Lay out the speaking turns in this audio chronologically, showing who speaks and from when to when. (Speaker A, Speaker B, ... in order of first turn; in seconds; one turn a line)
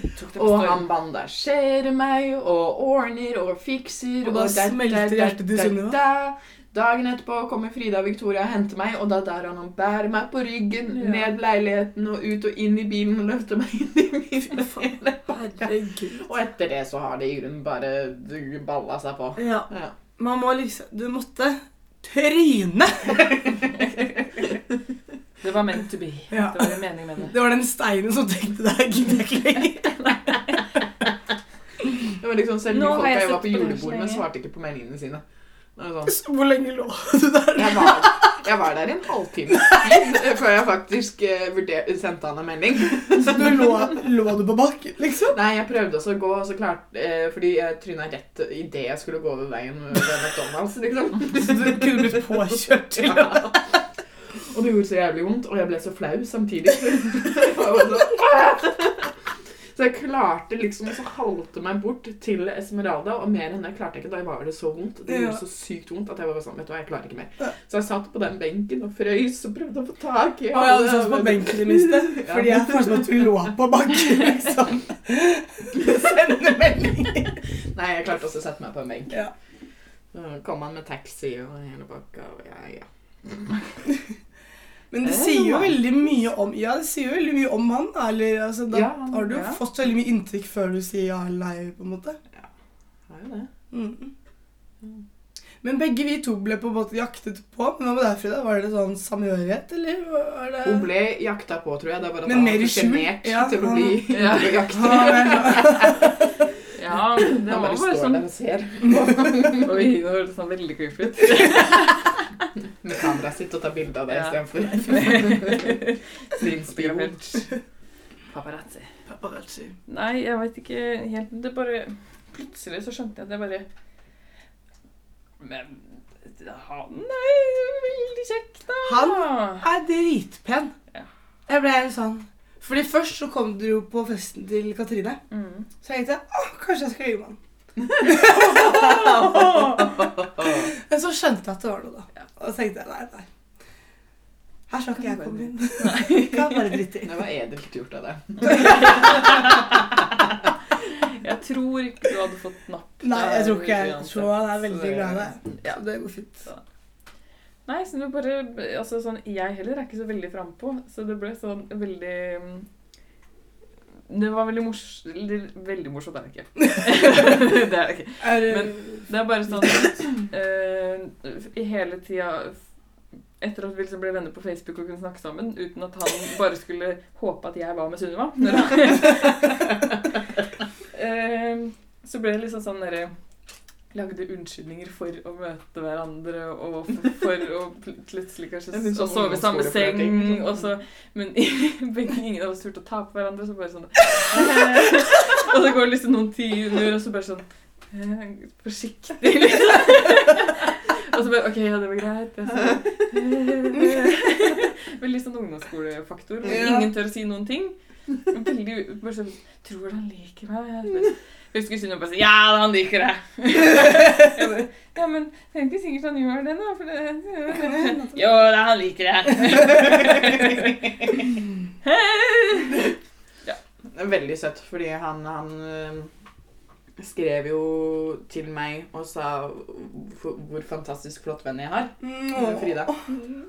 Speaker A: 0.1-0.8
Speaker B: 0.3-19.9
Speaker C: 4.2-6.0
Speaker A: 10.9-11.3
Speaker C: 15.3-16.2
Speaker C: 19.4-23.7
Speaker A: 25.4-27.4
Speaker C: 26.3-30.2
Speaker A: 29.8-30.6
Speaker B: 32.1-35.2
Speaker A: 32.7-34.2
Speaker B: 35.8-36.2
Speaker C: 36.1-38.3
Speaker B: 37.5-43.8
Speaker C: 43.2-45.4
Speaker B: 45.3-52.4
Speaker C: 51.3-53.5
Speaker B: 52.9-53.6
Speaker B: 54.4-59.1
Speaker B: 59.7-73.1
Speaker C: 65.1-65.4
Speaker C: 70.5-77.4
Speaker B: 77.7-79.2
Speaker B: 80.1-83.5
Speaker C: 84.9-92.2
Speaker A: 85.0-85.8
Speaker B: 88.7-89.4
Speaker A: 89.3-89.6
Speaker B: 93.1-93.5
Speaker C: 93.7-94.1
Speaker C: 95.6-100.9
Speaker B: 100.6-106.1
Speaker C: 102.2-106.2
Speaker A: 104.1-104.9
Speaker A: 106.7-108.2
Speaker B: 107.2-109.9
Speaker A: 109.6-112.5
Speaker B: 112.8-115.8
Speaker A: 114.1-117.5
Speaker B: 116.4-117.2
Speaker A: 118.3-118.9
Speaker C: 119.1-119.7
Speaker A: 119.9-123.7
Speaker A: 125.4-129.7
Speaker C: 128.8-130.7
Speaker C: 131.5-135.2
Speaker A: 135.3-135.7
Speaker C: 135.8-137.4
Speaker B: 137.8-140.7
Speaker C: 138.0-139.8
Speaker C: 140.4-143.2
Speaker C: 144.7-147.2
Speaker A: 145.0-146.8
Speaker B: 147.0-149.8
Speaker A: 148.5-149.6
Speaker A: 150.8-155.2
Speaker C: 153.0-156.4
Speaker A: 157.7-162.7
Speaker A: 164.1-172.6
Speaker C: 168.2-169.0
Speaker A: 173.4-179.8
Speaker A: 180.9-183.1
Speaker A: 183.9-221.1
Speaker B: 188.7-190.6
Speaker B: 206.4-206.8
Speaker C: 206.5-206.9
Speaker C: 217.6-218.2
Speaker A: 221.8-222.9
Speaker B: 223.9-226.1
Speaker B: 227.0-232.9
Speaker C: 232.0-233.0